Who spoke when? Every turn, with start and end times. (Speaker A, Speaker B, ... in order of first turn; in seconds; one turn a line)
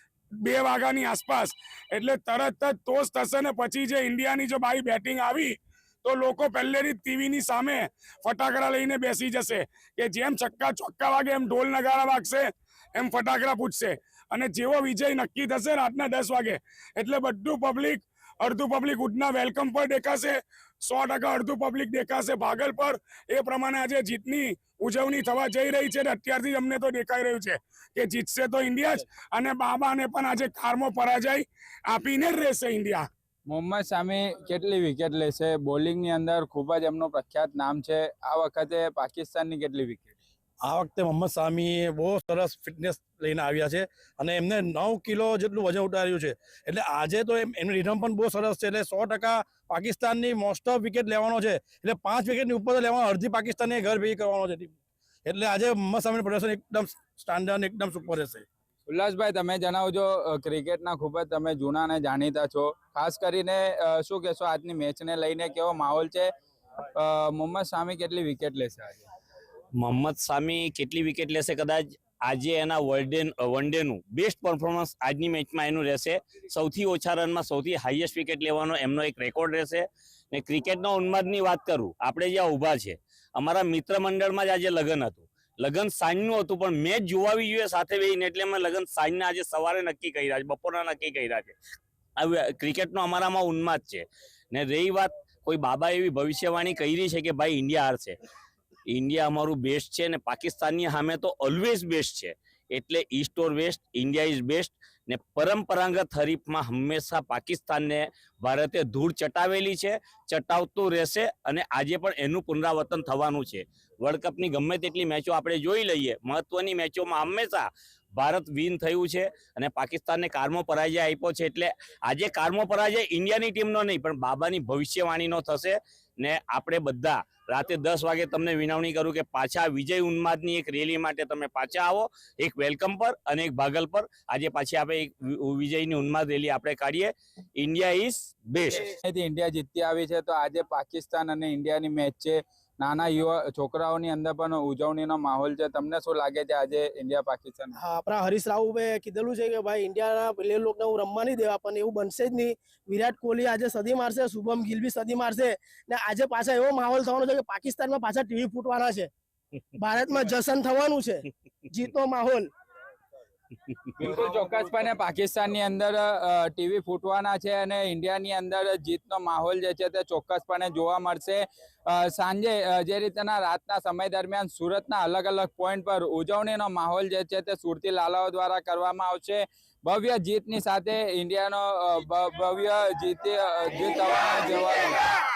Speaker A: 0.4-33.1
Speaker B: 33.5-40.1
Speaker C: 40.7-54.6
Speaker C: 55.3-58.4
Speaker B: 58.9-66.3
Speaker B: 66.9-69.0
Speaker D: 69.8-91.6
Speaker D: 92.2-98.2
Speaker D: 98.9-138.9
Speaker B: 139.1-147.8
Speaker E: 147.8-159.1
Speaker E: 159.8-162.5
Speaker B: 164.0-185.0